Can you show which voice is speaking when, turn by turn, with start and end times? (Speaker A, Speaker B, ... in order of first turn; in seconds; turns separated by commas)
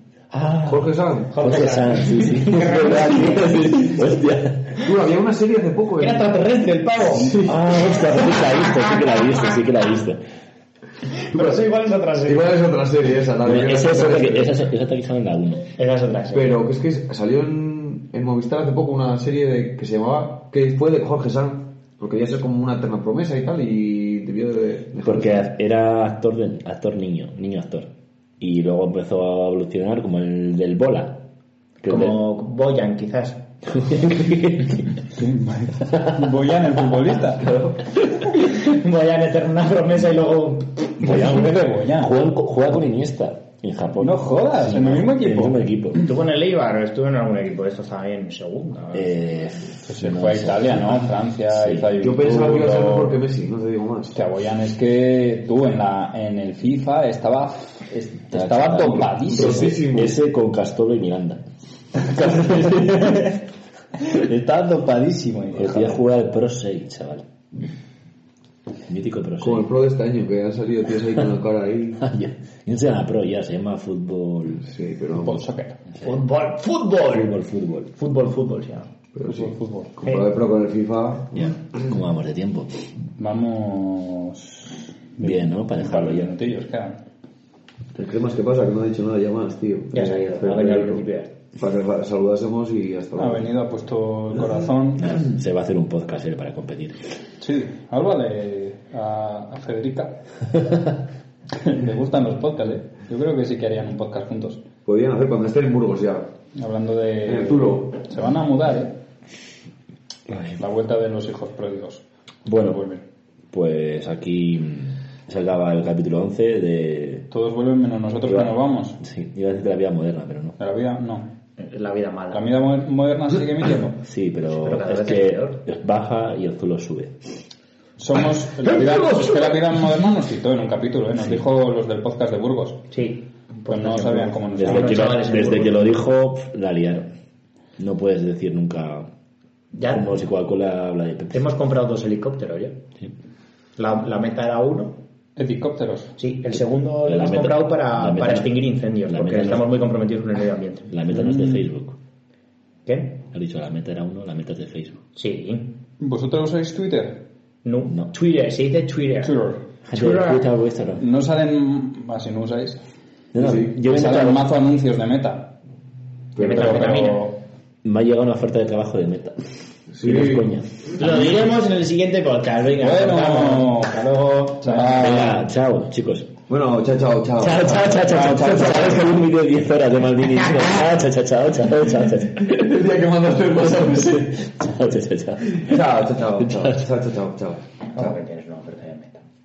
Speaker A: 0.3-4.8, Speaker B: 0.7-1.4, Speaker C: 1.3-3.7, Speaker B: 3.0-4.1, Speaker B: 4.8-6.3, Speaker C: 6.0-7.4, Speaker B: 7.0-7.9, Speaker A: 7.4-10.2, Speaker C: 11.1-12.6, Speaker B: 11.3-11.6, Speaker B: 12.2-14.5, Speaker A: 13.4-15.6, Speaker C: 15.8-16.6, Speaker B: 16.3-25.5, Speaker A: 25.0-31.2, Speaker A: 31.8-32.2, Speaker C: 31.9-33.4, Speaker A: 33.7-34.8, Speaker D: 35.1-37.5, Speaker C: 38.1-41.3, Speaker D: 41.0-42.1, Speaker A: 41.0-46.0, Speaker D: 44.0-46.1, Speaker C: 46.0-49.2, Speaker A: 48.9-51.9, Speaker D: 49.9-53.2, Speaker B: 52.0-54.2, Speaker D: 54.1-59.8, Speaker A: 58.3-61.4, Speaker B: 59.2-60.2, Speaker A: 62.0-63.2, Speaker D: 62.1-63.4, Speaker D: 64.0-66.0, Speaker A: 65.5-67.3, Speaker A: 68.9-69.7, Speaker B: 69.4-72.0, Speaker A: 72.0-74.7, Speaker B: 74.6-75.5, Speaker D: 75.1-75.8, Speaker C: 76.0-77.3, Speaker A: 77.1-77.9, Speaker C: 78.0-78.9, Speaker B: 79.1-81.5, Speaker D: 79.3-79.9, Speaker A: 81.3-82.8, Speaker D: 83.2-87.0, Speaker A: 85.2-86.5, Speaker B: 87.9-91.0, Speaker C: 89.9-91.3, Speaker B: 91.6-93.5, Speaker D: 93.1-95.2, Speaker A: 95.0-97.1, Speaker D: 97.4-100.7, Speaker D: 101.6-104.6, Speaker B: 104.8-106.3, Speaker D: 106.5-108.9, Speaker B: 107.2-108.0, Speaker A: 110.3-110.5, Speaker D: 110.5-113.0, Speaker A: 112.5-112.8, Speaker A: 113.5-117.3, Speaker D: 117.3-119.0, Speaker A: 118.2-120.6, Speaker D: 120.6-121.3, Speaker C: 121.6-122.4, Speaker D: 122.3-124.0, Speaker A: 124.0-127.3, Speaker C: 124.5-125.6, Speaker D: 128.0-132.8, Speaker B: 128.6-129.6, Speaker C: 132.9-136.0, Speaker D: 133.7-135.2, Speaker A: 134.6-137.1, Speaker A: 137.8-139.1, Speaker C: 139.7-140.1, Speaker A: 139.8-141.4, Speaker C: 141.3-142.8, Speaker C: 143.8-145.0, Speaker D: 145.3-146.1, Speaker C: 146.2-150.9, Speaker A: 147.0-149.7, Speaker A: 150.9-152.0, Speaker D: 151.1-151.7, Speaker C: 152.8-153.2, Speaker A: 153.3-155.0, Speaker C: 155.2-155.7, Speaker D: 156.0-157.2, Speaker C: 157.6-159.3, Speaker D: 159.2-160.4, Speaker A: 159.8-161.0, Speaker D: 161.0-162.8, Speaker A: 163.3-164.4, Speaker B: 163.4-163.7, Speaker D: 163.8-165.5, Speaker B: 166.3-166.7, Speaker C: 166.4-167.3, Speaker D: 166.4-167.3, Speaker A: 167.8-170.9, Speaker B: 169.9-170.5, Speaker C: 171.0-174.9, Speaker D: 172.8-174.0, Speaker D: 174.6-175.5, Speaker A: 174.8-176.3, Speaker B: 176.5-178.4, Speaker A: 177.4-182.6, Speaker D: 178.0-179.2, Speaker B: 182.4-184.4, Speaker A: 184.1-185.8, Speaker B: 185.5-188.1, Speaker A: 186.4-186.8, Speaker C: 187.9-189.2